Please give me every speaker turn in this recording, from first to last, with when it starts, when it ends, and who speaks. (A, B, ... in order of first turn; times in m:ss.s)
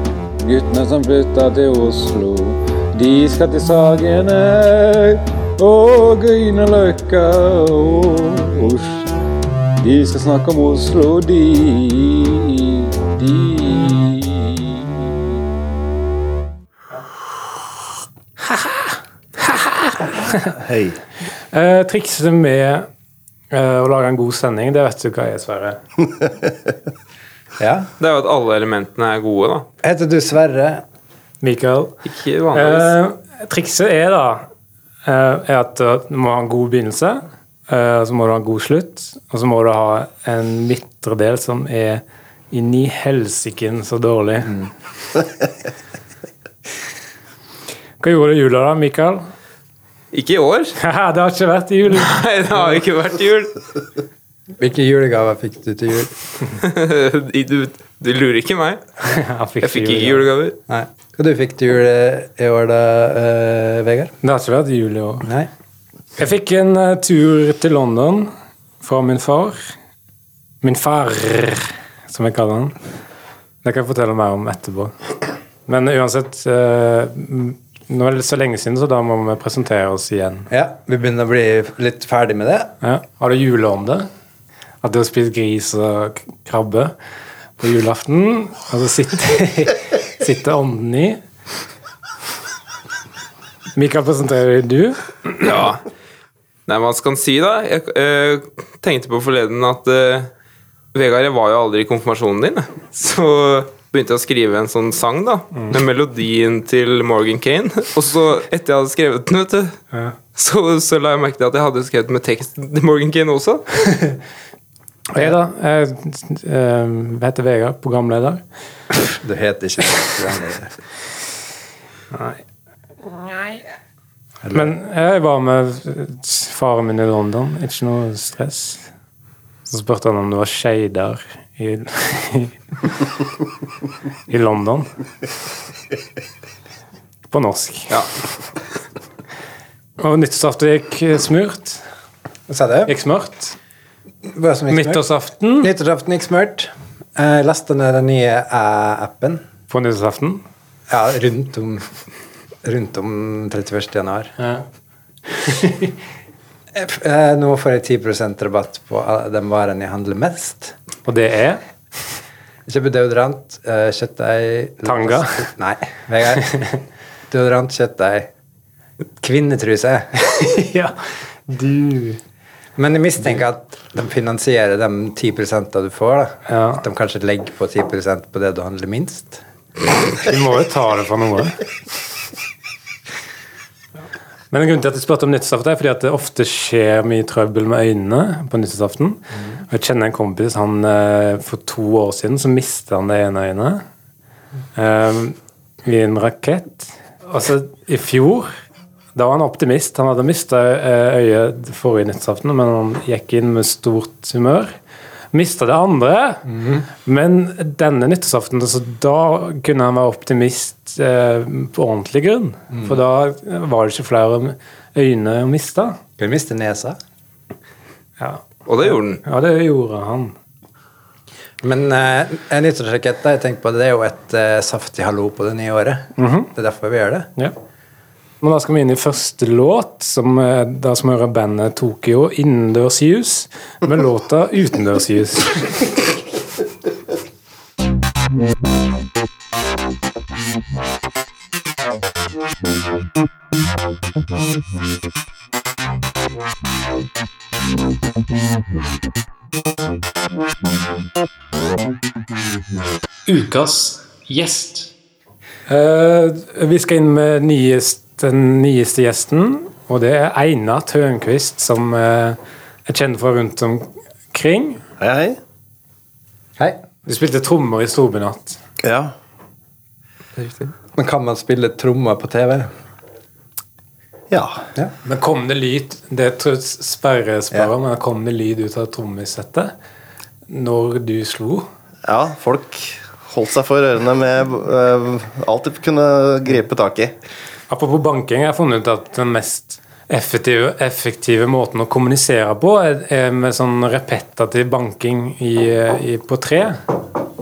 0:00.4-0:09.1 A
0:09.8-0:15.0 A
0:18.5-0:20.5 B
0:20.6-0:21.0 C
0:21.5-0:22.9 B
0:23.5-0:25.8 B
0:27.6-0:27.9 D
0:28.0-0:29.7 E
0:29.8-0:30.8 D
0:31.4-0:32.0 B
0:32.0-0:32.9 E
0:32.5-0:34.5 B
0:35.0-0:44.6 B
0:48.0-0:49.2 B
0:50.1-0:50.8 E
0:50.8-0:52.1 B
0:52.0-0:53.6 E
0:54.6-0:56.1 D
0:56.6-0:58.8 E
0:59.0-1:00.2 B
0:59.6-1:00.6 E
1:00.7-1:04.1 D
1:04.2-1:05.3 B
1:05.2-1:05.5 D
1:06.2-1:09.6 B
1:10.6-1:12.7 B
1:13.6-1:14.9 B
1:15.7-1:20.5 B
1:20.5-1:22.7 D
1:22.8-1:24.1 B
1:24.8-1:26.9 B
1:27.6-1:31.2 B
1:33.7-1:35.7 B
1:35.4-1:35.8 E
1:36.7-1:40.3 E
1:40.9-1:49.8 E
1:50.3-1:53.6 E
1:55.1-1:58.4 B
1:59.2-2:00.7 D
2:02.1-2:02.4 B
2:03.1-2:03.6 B
2:04.4-2:04.7 D
2:04.5-2:08.9 B
2:09.7-2:12.6 B
2:14.3-2:14.9 B
2:17.3-2:18.0 B
2:20.0-2:21.8 B
2:22.5-2:22.9 D
2:22.9-2:23.6 B
2:24.2-2:25.0 D
2:24.7-2:25.7 B
2:25.6-2:29.4 D
2:29.7-2:30.4 B
2:30.9-2:31.9 D
2:32.6-2:34.4 D
2:36.7-2:40.7 D
2:41.0-2:41.6 B
2:42.7-2:46.8 D
2:44.8-2:45.5 B
2:47.3-2:48.3 D
2:49.2-2:50.4 D
2:50.4-2:52.2 B
2:52.8-2:59.4 D
2:56.5-2:56.8 B
3:00.2-3:01.6 B
3:04.5-3:13.8 B
3:14.8-3:18.5 B
3:19.1-3:24.7 B
3:25.3-3:36.0 B
3:26.5-3:26.8 D
3:36.2-3:37.0 D
3:38.2-3:38.4 B
3:38.6-3:39.2 E
3:39.2-3:40.3 B
3:41.6-3:47.3 D
3:46.2-3:46.5 B
3:48.4-3:56.0 B
4:13.3-4:14.9 A
4:15.7-4:24.8 B
4:25.0-4:25.4 C
4:27.0-4:28.6 B
4:28.8-4:29.1 C
4:30.4-4:32.7 D
4:34.3-4:34.6 C
4:35.0-4:39.7 B
4:40.5-4:41.6 B
4:42.0-4:47.1 C
4:47.7-4:56.8 B